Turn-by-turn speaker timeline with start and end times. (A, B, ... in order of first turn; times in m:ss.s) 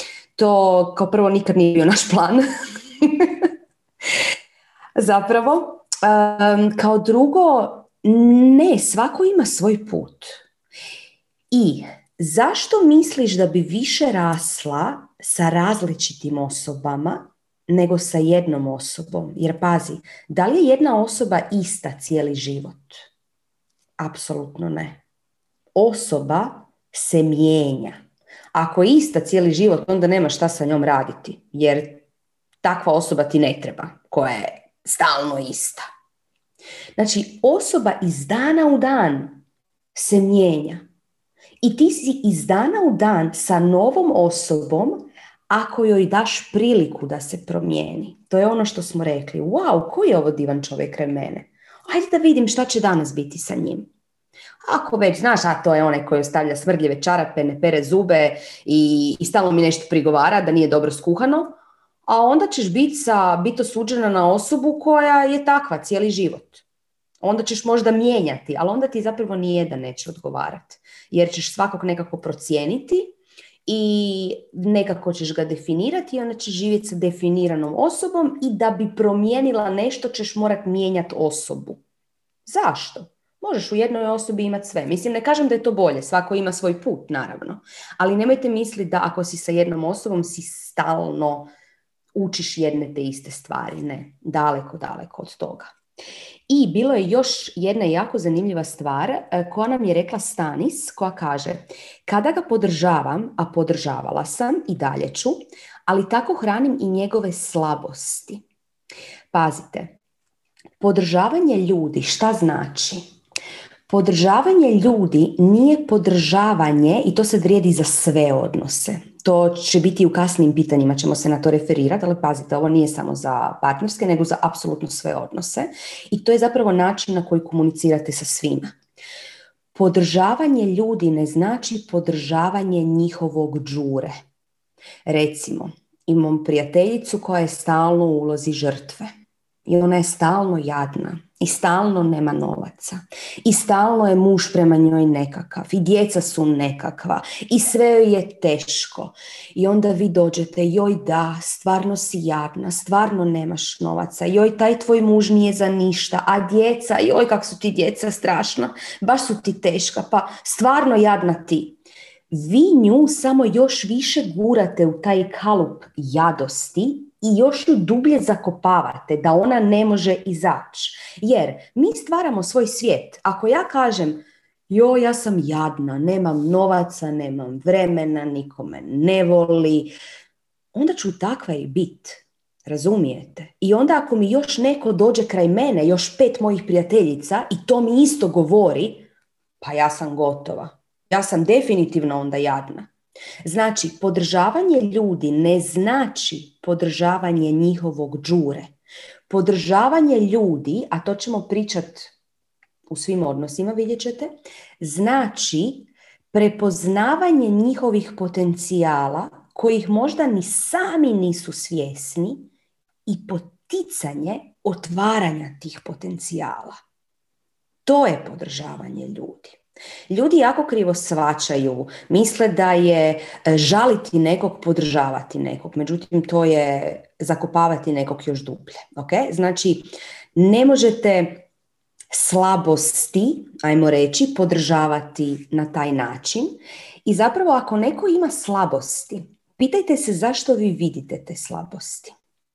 0:00.4-0:02.4 A
0:03.0-0:03.5 A
0:05.0-0:10.4 A
0:11.5-0:23.0 A
0:24.0-0:25.0 A
0:25.7-0:28.0 A
0:28.5-0:32.0 A
0:32.6-0:35.8 A
0:37.0-0:39.4 A
0:39.9-0:40.8 A
0:41.6-0:53.9 A
0:54.7-1:06.6 A
1:07.2-1:13.1 A
1:13.6-1:21.8 A
1:22.4-1:31.5 A
1:32.1-1:35.7 A
1:36.5-1:48.4 A
1:49.3-1:50.0 A
1:50.8-1:53.0 A
1:53.9-2:08.7 A
2:09.7-2:14.1 A
2:15.0-2:19.1 A
2:19.7-2:41.8 A
2:42.3-2:59.9 A
3:00.7-3:09.1 A
3:09.6-3:12.9 A
3:13.4-3:18.7 A
3:19.3-3:22.1 A
3:22.9-3:32.5 A
3:33.0-3:36.8 A
3:37.8-3:39.6 A
3:40.1-3:51.4 A
3:52.1-4:02.2 A